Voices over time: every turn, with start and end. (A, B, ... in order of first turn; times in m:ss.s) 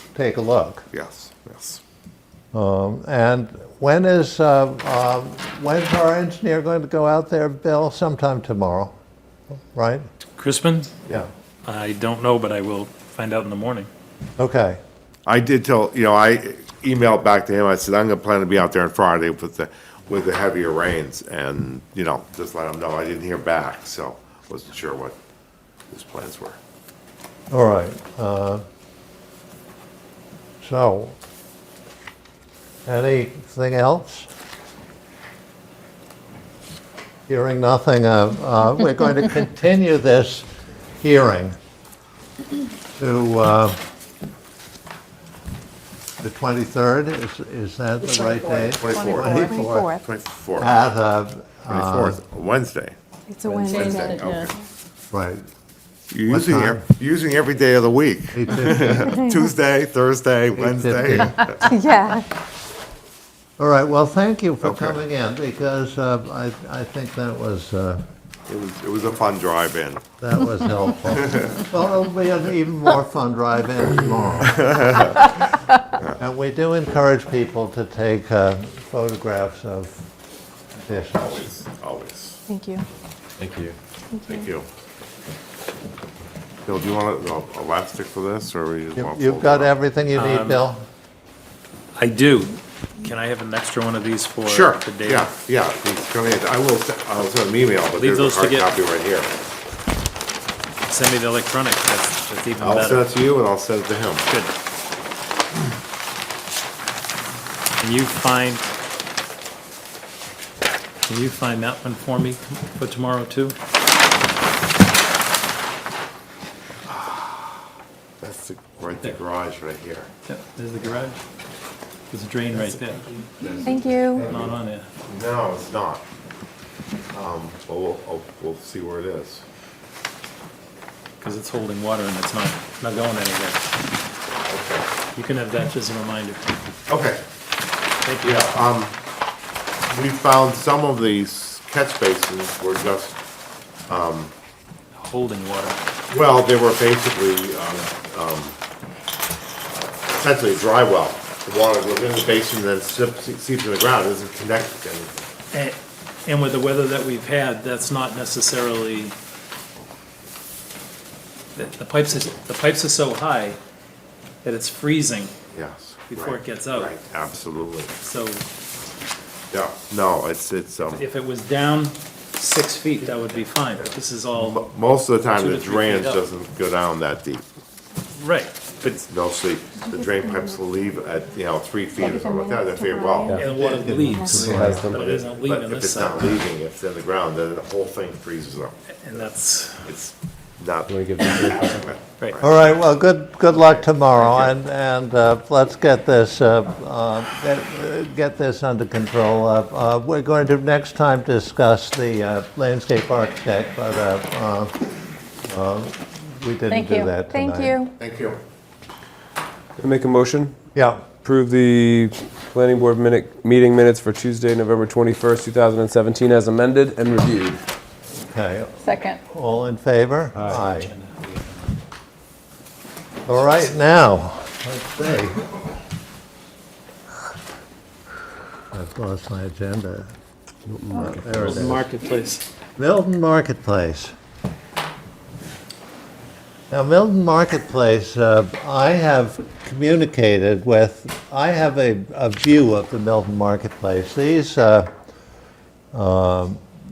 0:00.1-0:00.9 A
0:00.9-0:01.8 B
0:02.5-0:09.0 A
0:09.5-0:10.0 A
0:10.4-0:11.0 C
0:11.6-0:13.9 C
0:14.4-0:14.8 A
0:15.3-0:25.2 B
0:25.9-0:26.6 B
0:27.5-0:28.6 A
0:30.6-0:31.2 A
0:32.9-0:34.3 A
0:37.3-0:40.5 A
0:41.0-0:41.6 A
0:43.0-0:43.8 A
0:46.2-0:49.9 A
0:48.4-0:50.7 B
0:48.9-0:50.0 D
0:50.6-0:52.2 A
0:51.7-0:53.0 B
0:53.3-0:54.5 D
0:53.4-0:54.0 A
0:53.7-0:54.5 B
0:55.1-0:55.4 A
0:56.1-1:01.7 B
0:56.3-0:56.9 A
0:58.3-0:59.2 A
1:00.5-1:01.7 A
1:01.6-1:02.3 D
1:03.6-1:08.0 A
1:04.6-1:05.0 B
1:08.5-1:10.0 B
1:10.2-1:15.1 A
1:14.6-1:15.3 B
1:16.2-1:20.1 A
1:20.8-1:21.5 A
1:21.2-1:22.4 B
1:22.5-1:22.8 D
1:23.4-1:23.7 E
1:24.2-1:24.7 B
1:26.7-1:29.8 B
1:29.0-1:30.8 A
1:30.1-1:30.6 C
1:32.0-1:35.3 C
1:34.4-1:39.3 B
1:38.0-1:38.7 C
1:40.9-1:43.1 C
1:42.6-1:44.3 B
1:47.8-1:48.6 C
1:51.1-1:53.6 C
1:56.9-1:57.6 B
1:58.2-2:00.1 B
2:00.3-2:01.2 C
2:02.1-2:03.1 C
2:03.4-2:04.4 B
2:03.6-2:04.3 D
2:04.2-2:04.9 C
2:05.1-2:06.0 B
2:07.1-2:09.4 B
2:11.2-2:13.6 C
2:14.4-2:14.9 B
2:15.2-2:16.4 C
2:16.9-2:17.2 B
2:18.0-2:18.5 C
2:18.2-2:19.0 B
2:19.9-2:23.2 B
2:23.9-2:24.3 B
2:25.0-2:25.8 C
2:26.1-2:28.6 B
2:30.1-2:35.1 B
2:35.5-2:39.1 C
2:41.6-2:43.6 C
2:44.4-2:45.3 C
2:45.5-2:48.0 B
2:46.1-2:46.9 C
2:48.0-2:48.4 C
2:49.5-2:51.0 B
2:51.0-2:54.7 C
2:54.4-2:57.4 B
2:55.2-2:56.2 C
2:58.2-2:58.7 C
2:58.8-3:03.4 B
3:02.0-3:03.3 D
3:03.3-3:06.4 C
3:03.4-3:04.9 A
3:04.1-3:04.5 D
3:04.2-3:05.0 E
3:04.8-3:09.3 B
3:08.9-3:09.9 C
3:09.8-3:12.5 B
3:10.9-3:11.8 E
3:12.4-3:24.8 A
3:13.5-3:14.5 B
3:25.4-3:27.9 A
3:26.7-3:27.9 D
3:28.0-3:28.4 B
3:29.8-3:30.6 E
3:30.8-3:31.0 A
3:31.1-3:37.6 E
3:38.3-3:40.9 A
3:38.8-3:39.2 D
3:40.4-3:40.6 E
3:40.5-3:41.8 C
3:43.2-3:45.5 A
3:43.3-3:43.7 C
3:48.7-3:50.1 A
3:50.7-3:51.8 E
3:51.0-3:51.9 A
3:51.4-3:52.4 C
3:52.8-3:54.1 A
3:56.7-4:04.9 A
4:05.9-4:06.6 A